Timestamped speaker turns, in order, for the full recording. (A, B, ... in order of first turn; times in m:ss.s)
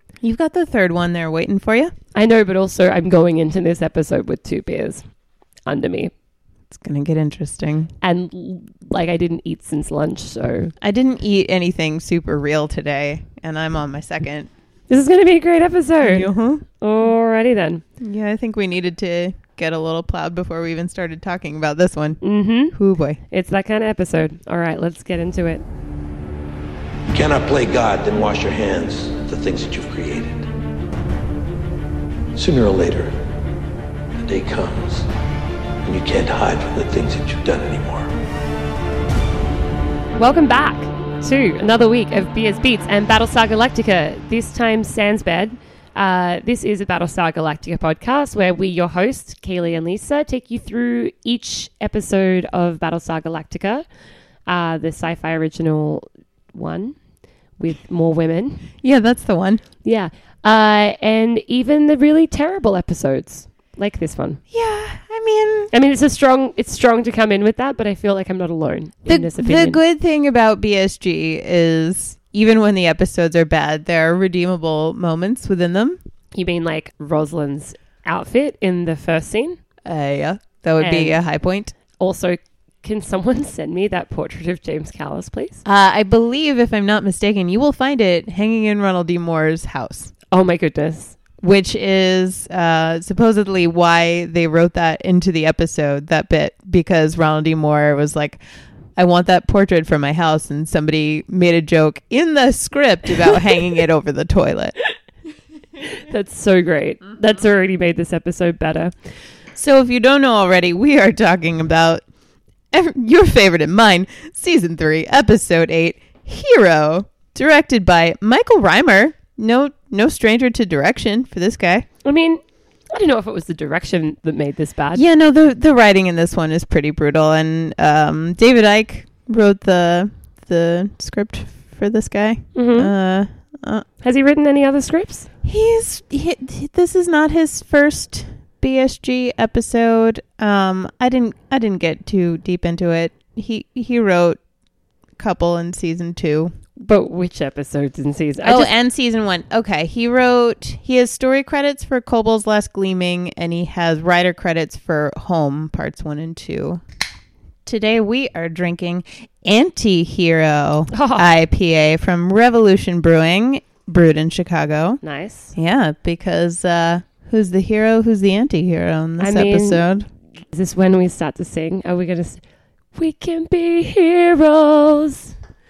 0:00.2-0:01.9 A
0:02.2-0:05.0 B
0:05.7-0:06.1 B
0:06.7-0:07.9 A
0:08.0-0:10.7 B
0:10.8-0:14.5 A
0:14.9-0:17.8 B
0:16.0-0:16.6 A
0:18.0-0:22.2 A
0:22.2-0:22.8 B
0:22.7-0:23.2 A
0:23.3-0:25.6 B
0:27.1-0:30.5 C
0:32.4-0:33.1 C
0:34.2-0:35.1 C
0:35.8-0:38.1 C
0:40.2-0:53.8 B
0:54.5-0:57.0 B
0:57.6-0:58.7 B
0:58.8-0:59.6 A
0:59.8-1:04.4 B
1:04.5-1:05.7 A
1:05.7-1:09.8 B
1:09.1-1:16.0 A
1:16.3-1:19.6 B
1:19.8-1:21.8 A
1:20.8-1:21.2 B
1:22.0-1:25.6 B
1:25.6-1:30.1 A
1:30.3-1:31.2 B
1:31.4-1:38.4 A
1:39.0-1:44.7 A
1:45.8-1:48.9 B
1:49.6-1:52.0 A
1:52.7-2:01.9 A
2:02.0-2:05.0 B
2:04.9-2:13.8 A
2:12.6-2:12.9 B
2:14.0-2:15.3 B
2:15.4-2:24.4 A
2:25.2-2:26.5 A
2:26.8-2:28.7 B
2:28.4-2:36.8 A
2:37.7-2:45.0 A
2:40.9-2:41.3 B
2:45.0-2:45.5 B
2:45.6-2:50.1 A
2:49.2-2:49.8 B
2:50.5-2:52.4 B
2:53.0-2:55.4 B